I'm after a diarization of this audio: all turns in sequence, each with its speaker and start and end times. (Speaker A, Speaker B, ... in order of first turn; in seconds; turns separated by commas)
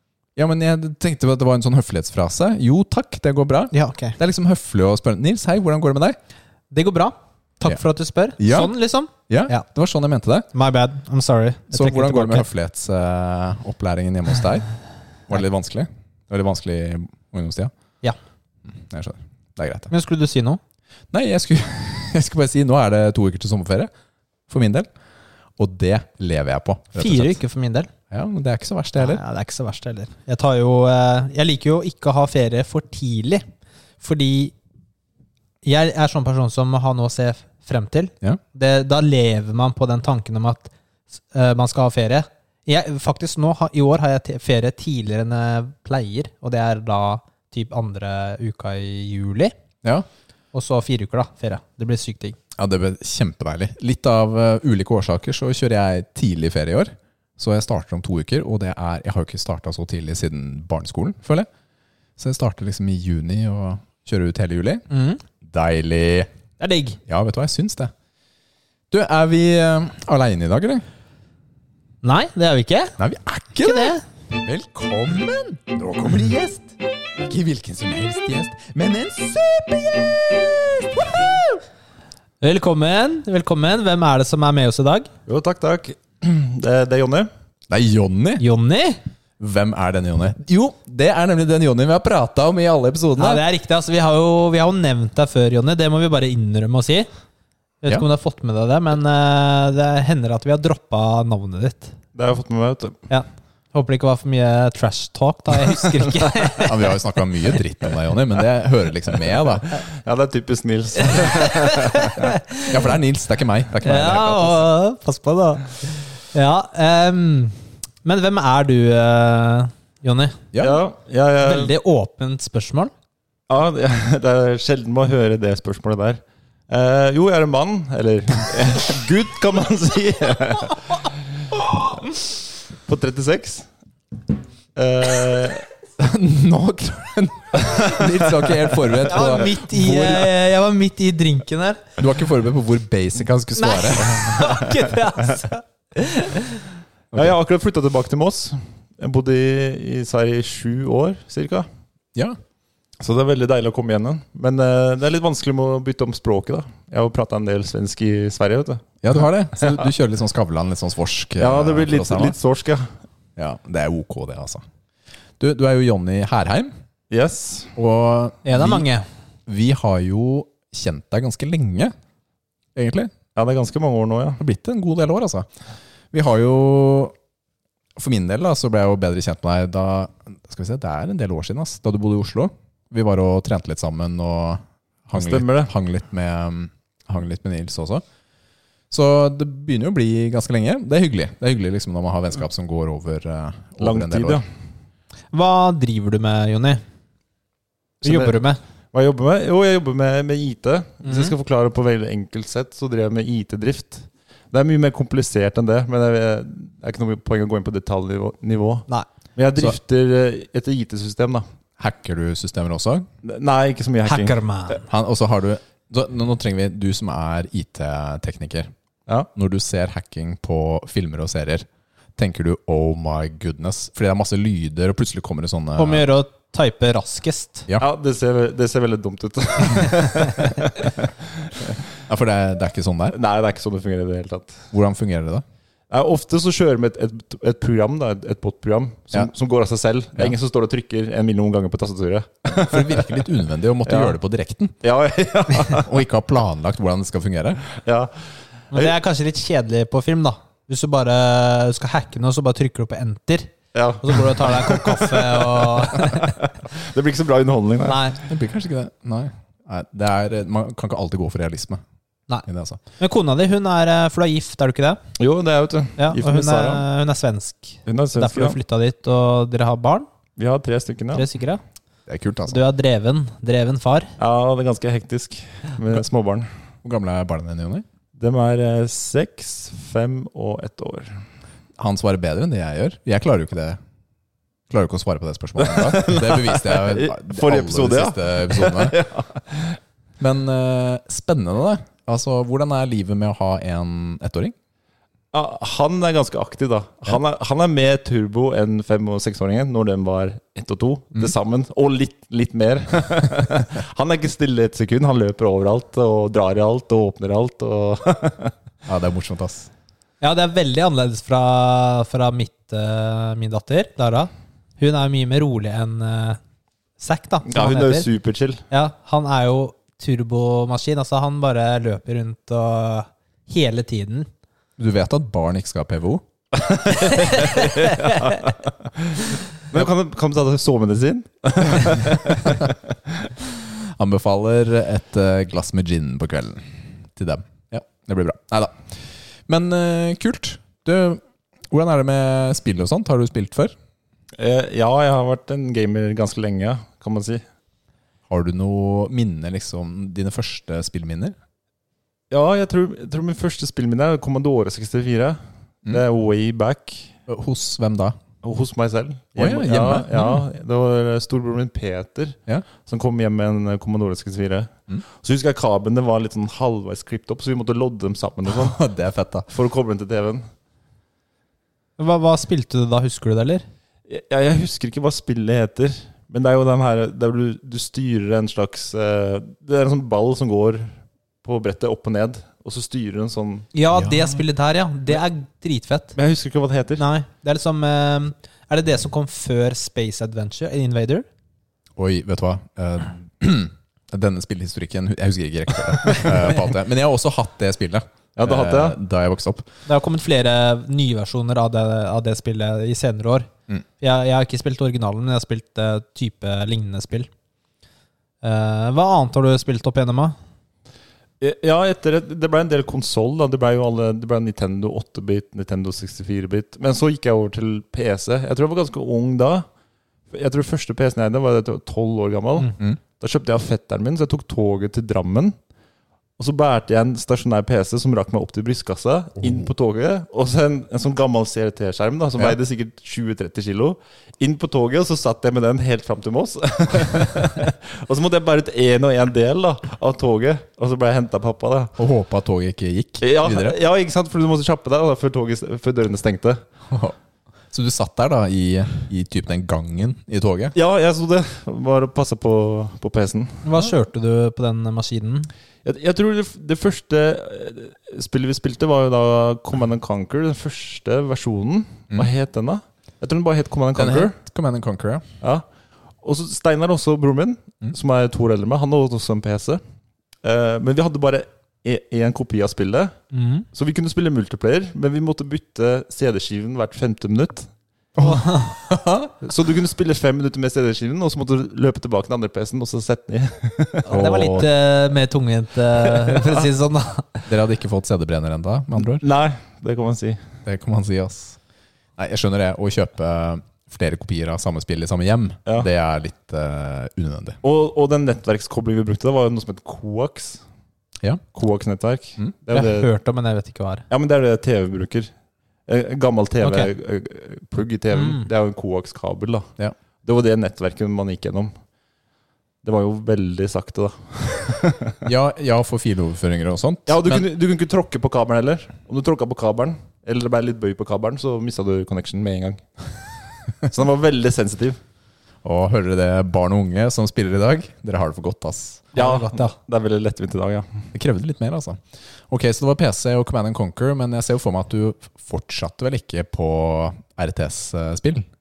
Speaker A: 0.3-6.2, Speaker B: 3.7-4.2, Speaker B: 6.7-9.7, Speaker A: 8.4-10.5, Speaker B: 10.5-12.4, Speaker A: 11.7-14.7, Speaker A: 15.2-17.7, Speaker A: 18.6-19.9, Speaker B: 19.9-20.6, Speaker A: 21.1-23.9, Speaker A: 24.5-24.9, Speaker A: 25.6-27.4, Speaker B: 26.9-27.9, Speaker A: 28.1-29.2, Speaker B: 28.9-33.4, Speaker B: 34.0-34.5, Speaker B: 35.6-49.5, Speaker B: 50.5-52.4, Speaker A: 52.6-61.5, Speaker A: 62.2-64.8, Speaker B: 64.9-65.2, Speaker A: 65.4-66.3, Speaker B: 66.6-67.0, Speaker A: 67.0-67.9, Speaker A: 68.9-70.8, Speaker B: 72.0-73.0, Speaker A: 73.0-81.6, Speaker B: 73.6-74.0, Speaker B: 82.4-85.1, Speaker C: 85.2-87.3, Speaker A: 87.7-88.4, Speaker B: 88.4-89.0, Speaker A: 89.4-93.4, Speaker B: 93.2-97.1, Speaker B: 97.8-102.0, Speaker C: 102.1-103.0, Speaker B: 103.1-106.7, Speaker A: 106.6-109.8, Speaker C: 109.8-112.0, Speaker B: 111.2-112.7, Speaker A: 112.7-114.7, Speaker B: 113.8-120.4, Speaker A: 120.5-120.8, Speaker C: 120.6-121.7, Speaker B: 121.4-122.9, Speaker C: 123.5-131.1, Speaker C: 132.7-133.7, Speaker C: 134.8-135.7, Speaker A: 136.0-140.3, Speaker B: 139.1-141.8, Speaker A: 142.0-144.1, Speaker B: 143.6-146.6, Speaker C: 144.1-144.9, Speaker C: 147.1-151.7, Speaker C: 153.0-159.9, Speaker A: 159.0-162.3, Speaker C: 161.4-162.9, Speaker A: 163.3-164.6, Speaker A: 165.4-166.7, Speaker C: 167.1-167.7, Speaker A: 167.7-168.8, Speaker B: 168.4-169.0, Speaker A: 169.5-171.9, Speaker A: 172.7-173.1, Speaker C: 173.3-174.4, Speaker A: 174.4-175.5, Speaker A: 176.1-177.1, Speaker A: 178.0-188.0, Speaker C: 185.1-185.7, Speaker A: 188.9-194.4, Speaker C: 193.8-194.5, Speaker B: 195.3-196.8, Speaker C: 198.0-198.4, Speaker B: 198.0-198.6, Speaker C: 198.9-211.4, Speaker B: 201.0-201.3, Speaker A: 211.8-213.1, Speaker C: 213.2-214.3, Speaker B: 214.0-214.8, Speaker A: 214.8-218.7, Speaker A: 219.3-226.0, Speaker B: 225.8-227.6, Speaker C: 227.8-231.8, Speaker A: 232.1-233.2, Speaker C: 233.1-234.7, Speaker A: 234.7-235.4, Speaker C: 235.9-243.3, Speaker A: 242.6-244.8, Speaker C: 243.8-244.1, Speaker C: 244.8-245.9, Speaker A: 245.7-247.7, Speaker C: 247.8-248.9, Speaker B: 248.7-256.4, Speaker C: 253.7-258.0, Speaker B: 257.8-258.2, Speaker A: 258.2-261.8, Speaker A: 262.4-262.8, Speaker B: 263.0-265.0, Speaker C: 265.2-266.8, Speaker B: 266.0-270.1, Speaker C: 267.8-268.6, Speaker C: 270.4-271.3, Speaker B: 271.1-271.6, Speaker A: 272.1-272.6, Speaker B: 272.5-274.1, Speaker C: 274.2-276.5, Speaker A: 276.8-277.9, Speaker C: 278.2-281.2, Speaker A: 281.8-283.8, Speaker A: 284.7-289.0, Speaker C: 285.6-289.8, Speaker A: 290.2-294.5, Speaker C: 295.3-308.5, Speaker A: 308.8-309.7, Speaker B: 310.2-316.4, Speaker B: 317.0-318.1, Speaker C: 317.4-318.6, Speaker B: 318.7-324.3, Speaker A: 324.8-326.2, Speaker C: 326.6-332.7, Speaker B: 327.2-328.2, Speaker A: 333.8-343.7, Speaker C: 344.4-347.4, Speaker A: 348.3-351.4, Speaker C: 352.3-357.1, Speaker A: 357.3-358.2, Speaker C: 358.4-368.8, Speaker A: 359.4-360.4, Speaker A: 368.4-369.5, Speaker C: 369.5-370.5, Speaker B: 372.0-373.6, Speaker C: 374.1-383.7, Speaker B: 383.7-386.2, Speaker A: 383.9-384.3, Speaker C: 386.1-387.0, Speaker B: 387.0-391.2, Speaker A: 392.0-399.7, Speaker C: 398.4-399.0, Speaker B: 399.9-403.5, Speaker B: 404.0-407.3, Speaker B: 408.4-410.4, Speaker C: 411.4-419.6, Speaker C: 420.3-425.6, Speaker C: 426.4-441.9, Speaker A: 429.4-429.7, Speaker A: 442.0-443.8, Speaker C: 443.2-446.6, Speaker A: 446.9-447.1, Speaker A: 447.7-450.7, Speaker C: 450.7-453.6, Speaker B: 453.6-455.5, Speaker C: 455.8-464.4, Speaker A: 463.9-465.2, Speaker C: 466.2-469.8, Speaker C: 470.4-473.2, Speaker B: 473.3-473.6, Speaker C: 473.7-477.7, Speaker A: 478.2-479.3, Speaker B: 478.2-478.7, Speaker C: 479.4-484.1, Speaker B: 484.1-487.4, Speaker A: 484.1-484.7, Speaker C: 486.2-486.6, Speaker A: 487.4-489.2, Speaker C: 489.0-490.5, Speaker A: 490.6-491.6, Speaker A: 492.2-497.6, Speaker C: 497.6-500.6, Speaker C: 501.5-503.1, Speaker B: 502.7-504.0, Speaker C: 504.1-505.3, Speaker C: 505.9-509.7, Speaker B: 506.6-506.9, Speaker B: 508.1-508.5, Speaker C: 510.2-511.7, Speaker C: 512.8-515.2, Speaker A: 515.2-517.5, Speaker C: 517.1-523.2, Speaker C: 523.8-525.0, Speaker A: 525.6-529.1, Speaker B: 529.1-529.7, Speaker C: 529.1-531.1, Speaker A: 531.1-538.5